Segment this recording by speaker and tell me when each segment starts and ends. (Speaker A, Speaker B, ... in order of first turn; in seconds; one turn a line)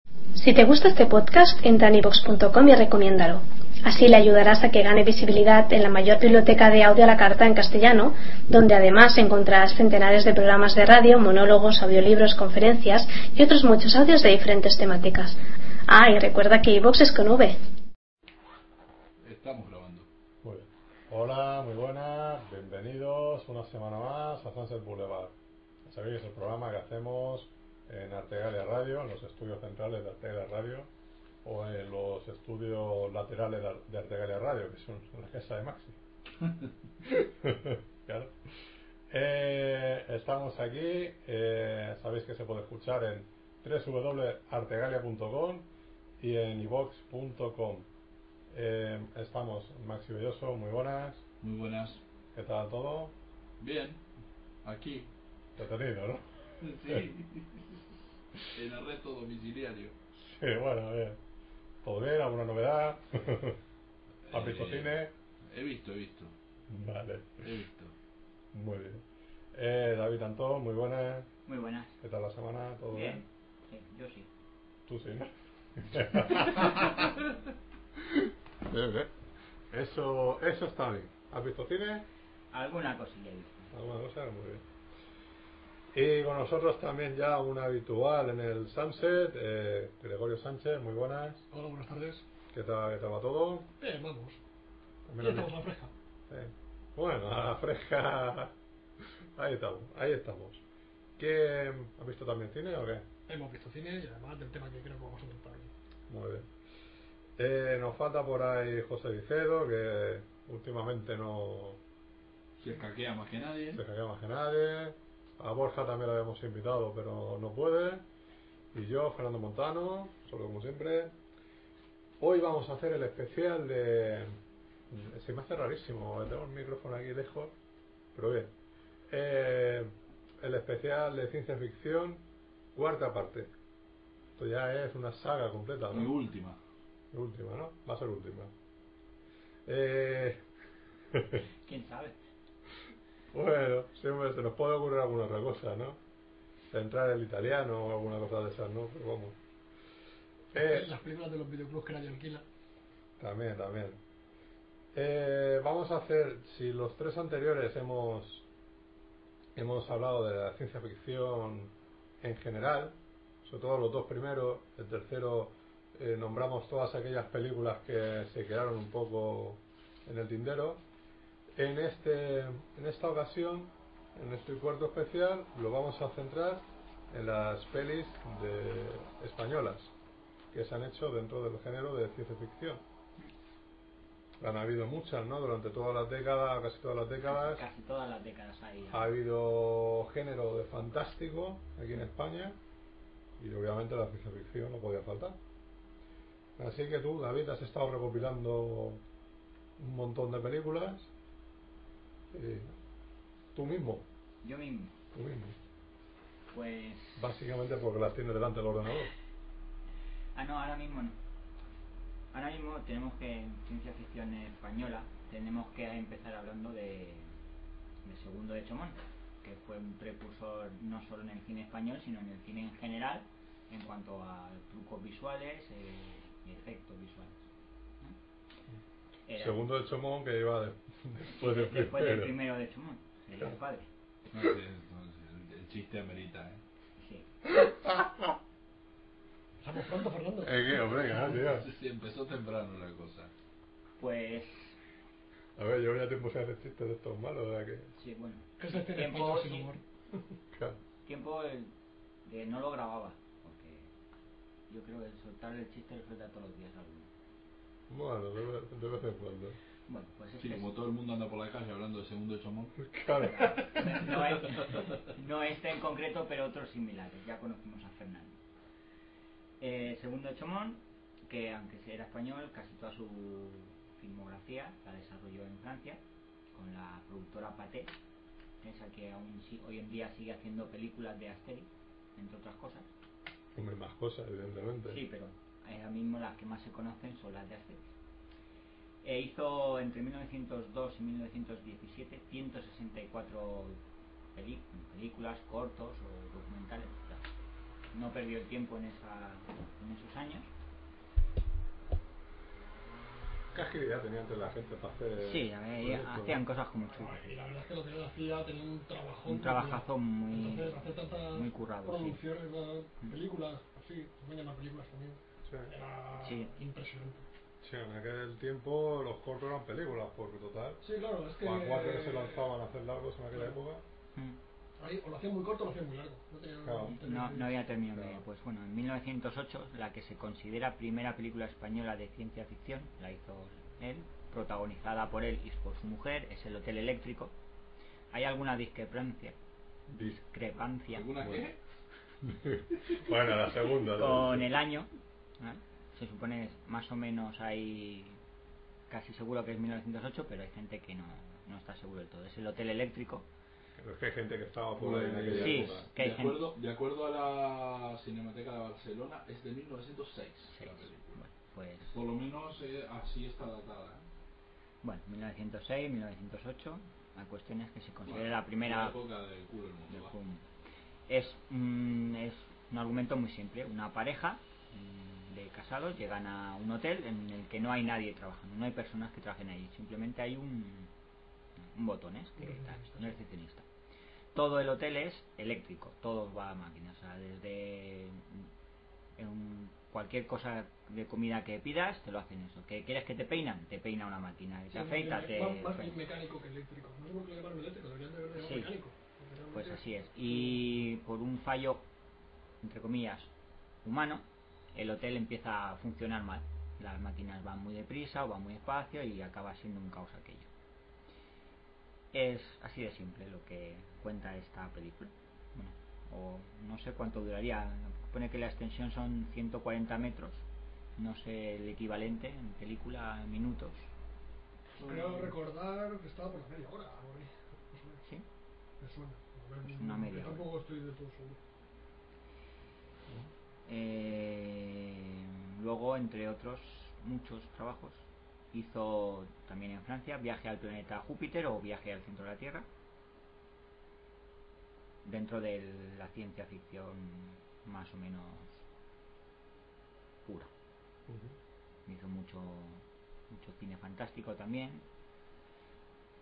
Speaker A: 0.4-17.6
Speaker B: 19.2-20.1
Speaker C: 20.4-30.9
Speaker C: 31.4-36.0
Speaker C: 37.0-38.5
Speaker C: 39.1-45.7
Speaker C: 46.2-47.9
Speaker C: 48.5-51.2
Speaker B: 51.4-52.0
Speaker C: 52.3-53.1
Speaker B: 53.6-54.0
Speaker B: 54.6-55.1
Speaker C: 55.5-56.2
Speaker B: 56.6-57.8
Speaker B: 58.4-59.9
Speaker C: 60.2-61.2
Speaker C: 61.8-63.6
Speaker B: 64.2-65.0
Speaker C: 64.3-65.1
Speaker B: 65.5-66.3
Speaker C: 66.7-67.5
Speaker B: 67.4-67.9
Speaker C: 68.5-69.0
Speaker C: 69.5-71.3
Speaker D: 71.5-71.9
Speaker C: 72.0-73.2
Speaker D: 72.9-74.3
Speaker C: 74.9-77.2
Speaker C: 78.0-79.1
Speaker C: 79.7-82.1
Speaker D: 82.5-83.7
Speaker C: 83.7-84.6
Speaker C: 85.9-91.4
Speaker E: 91.5-92.2
Speaker C: 92.5-93.7
Speaker E: 93.8-94.4
Speaker C: 95.1-95.5
Speaker E: 95.2-95.9
Speaker C: 96.3-98.5
Speaker C: 99.3-100.6
Speaker C: 101.2-103.1
Speaker E: 103.3-105.7
Speaker C: 106.1-106.5
Speaker C: 107.4-111.8
Speaker B: 112.6-113.8
Speaker C: 113.7-118.0
Speaker C: 118.7-121.1
Speaker C: 122.2-124.4
Speaker C: 124.9-127.5
Speaker C: 128.1-128.5
Speaker C: 129.1-132.2
Speaker C: 132.7-133.5
Speaker C: 134.3-136.1
Speaker B: 135.9-136.6
Speaker C: 137.1-138.5
Speaker C: 139.7-140.4
Speaker C: 141.1-141.4
Speaker D: 141.7-142.2
Speaker C: 143.3-146.0
Speaker C: 146.7-149.4
Speaker C: 150.5-150.9
Speaker E: 150.5-152.4
Speaker C: 153.2-154.0
Speaker C: 154.9-158.4
Speaker C: 159.6-170.8
Speaker C: 171.6-179.9
Speaker C: 180.5-182.8
Speaker C: 184.4-187.6
Speaker D: 187.3-189.1
Speaker C: 188.9-192.6
Speaker C: 193.4-195.4
Speaker C: 196.6-199.0
Speaker C: 199.8-201.1
Speaker C: 202.3-202.7
Speaker C: 203.5-204.1
Speaker D: 204.4-204.9
Speaker C: 205.1-205.5
Speaker D: 206.5-207.2
Speaker C: 207.2-209.1
Speaker D: 210.3-211.2
Speaker D: 212.3-217.3
Speaker D: 218.0-227.4
Speaker D: 229.3-229.6
Speaker C: 229.4-232.3
Speaker D: 231.4-233.9
Speaker B: 234.3-236.6
Speaker D: 237.0-237.2
Speaker C: 237.5-238.3
Speaker E: 239.6-241.0
Speaker C: 240.4-241.7
Speaker B: 241.3-243.3
Speaker D: 244.0-244.8
Speaker C: 245.6-247.9
Speaker D: 247.9-249.7
Speaker E: 248.6-249.8
Speaker C: 250.5-250.8
Speaker D: 251.0-251.7
Speaker D: 252.2-253.9
Speaker D: 254.7-257.1
Speaker C: 257.9-259.6
Speaker D: 259.9-260.8
Speaker B: 260.4-262.8
Speaker C: 262.8-264.2
Speaker D: 263.3-268.4
Speaker D: 269.6-276.0
Speaker D: 276.5-277.9
Speaker D: 278.6-282.9
Speaker C: 283.5-285.0
Speaker D: 284.9-287.9
Speaker D: 289.0-293.8
Speaker D: 294.3-297.2
Speaker D: 297.9-300.5
Speaker C: 303.5-306.4
Speaker D: 305.2-307.2
Speaker E: 306.9-317.3
Speaker D: 309.2-312.2
Speaker C: 315.4-315.7
Speaker D: 316.2-316.5
Speaker C: 317.6-320.8
Speaker E: 320.8-322.5
Speaker C: 321.4-323.8
Speaker E: 324.8-327.7
Speaker C: 326.6-327.0
Speaker D: 327.0-337.3
Speaker C: 327.9-328.2
Speaker D: 338.1-339.4
Speaker C: 339.9-340.2
Speaker D: 340.1-341.1
Speaker B: 340.9-341.6
Speaker C: 342.2-344.5
Speaker D: 343.9-348.2
Speaker D: 348.9-353.2
Speaker C: 353.8-355.9
Speaker B: 354.8-361.2
Speaker D: 355.4-356.5
Speaker D: 360.5-362.0
Speaker B: 361.9-364.0
Speaker D: 364.8-368.9
Speaker B: 368.1-370.1
Speaker D: 369.9-370.4
Speaker D: 371.1-380.9
Speaker D: 381.7-383.6
Speaker E: 382.4-383.2
Speaker D: 384.3-388.5
Speaker D: 389.2-396.0
Speaker E: 394.7-400.6
Speaker D: 398.4-398.7
Speaker D: 399.5-401.8
Speaker D: 402.6-403.3
Speaker D: 403.8-410.5
Speaker D: 412.1-420.4
Speaker D: 421.0-423.9
Speaker B: 424.8-425.3
Speaker E: 424.8-428.0
Speaker E: 428.8-431.4
Speaker D: 429.7-430.4
Speaker D: 433.6-442.7
Speaker D: 445.0-448.6
Speaker D: 450.2-450.5
Speaker C: 451.1-451.3
Speaker D: 451.9-454.8